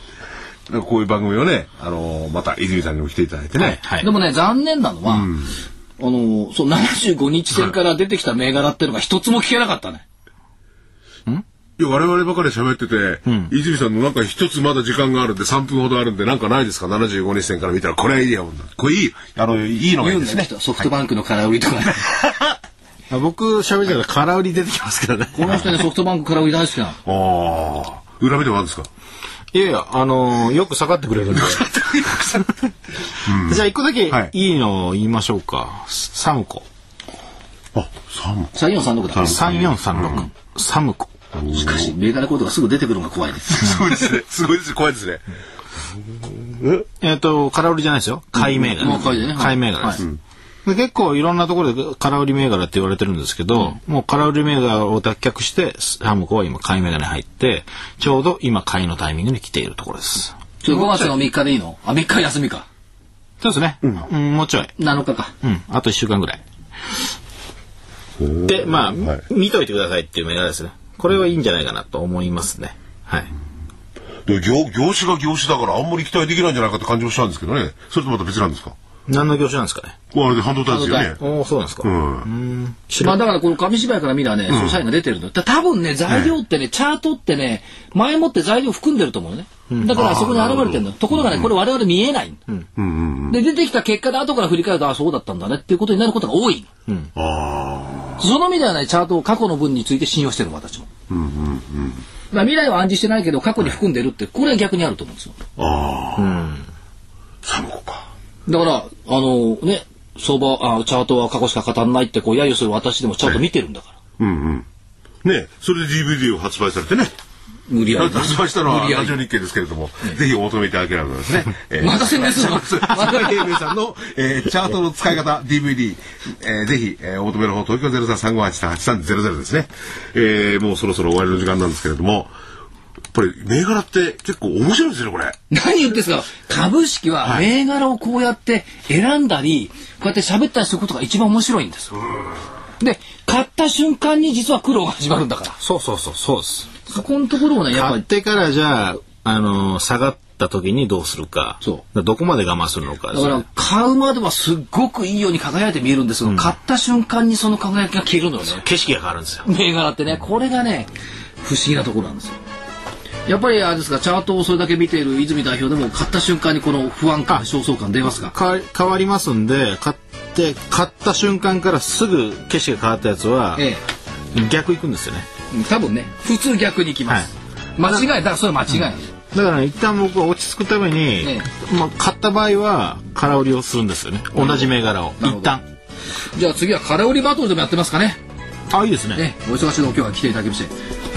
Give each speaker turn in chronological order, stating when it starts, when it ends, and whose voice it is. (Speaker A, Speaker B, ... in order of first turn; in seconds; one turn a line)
Speaker A: 0.7-3.8
Speaker B: 3.5-4.1
Speaker C: 4.0-10.0
Speaker A: 5.2-5.4
Speaker A: 11.8-20.5
Speaker B: 13.2-13.5
Speaker C: 20.0-22.1
Speaker B: 23.1-25.7
Speaker C: 25.3-27.0
Speaker A: 27.0-28.9
Speaker B: 29.5-32.7
Speaker A: 33.2-34.3
Speaker B: 33.2-36.6
Speaker A: 37.7-38.5
Speaker C: 38.5-39.7
Speaker A: 39.1-40.3
Speaker B: 39.2-41.1
Speaker A: 41.4-41.9
Speaker C: 41.5-44.1
Speaker A: 43.5-45.2
Speaker A: 46.4-46.8
Speaker B: 47.0-50.1
Speaker C: 48.4-50.0
Speaker B: 50.6-60.4
Speaker C: 60.6-62.7
Speaker B: 63.4-64.7
Speaker C: 64.8-65.3
Speaker B: 65.4-66.4
Speaker A: 68.2-69.2
Speaker B: 68.5-73.3
Speaker A: 74.2-78.7
Speaker B: 79.1-80.0
Speaker A: 80.1-81.2
Speaker C: 80.7-81.1
Speaker B: 81.1-83.2
Speaker A: 81.8-82.3
Speaker C: 83.0-92.4
Speaker A: 84.5-84.8
Speaker A: 86.1-86.3
Speaker B: 89.7-90.0
Speaker A: 90.0-91.5
Speaker A: 92.8-93.4
Speaker C: 93.3-96.7
Speaker A: 97.2-98.2
Speaker C: 98.2-100.9
Speaker A: 101.1-102.0
Speaker C: 102.3-105.4
Speaker A: 105.6-106.4
Speaker B: 106.2-106.7
Speaker A: 107.4-108.1
Speaker C: 108.5-114.0
Speaker A: 114.2-114.7
Speaker A: 115.2-117.1
Speaker C: 117.7-119.1
Speaker A: 117.9-132.3
Speaker C: 121.8-123.6
Speaker A: 133.1-135.4
Speaker C: 135.5-142.0
Speaker C: 142.8-145.6
Speaker B: 145.6-146.8
Speaker C: 146.8-148.0
Speaker B: 147.7-153.4
Speaker C: 153.1-158.6
Speaker B: 156.3-156.5
Speaker B: 158.5-159.4
Speaker C: 159.4-162.4
Speaker C: 163.2-168.3
Speaker B: 168.2-173.7
Speaker C: 173.5-173.8
Speaker B: 174.3-175.3
Speaker C: 175.5-179.1
Speaker B: 179.3-185.6
Speaker C: 181.2-181.5
Speaker C: 184.3-185.6
Speaker C: 186.3-188.2
Speaker B: 188.7-189.2
Speaker C: 189.1-190.7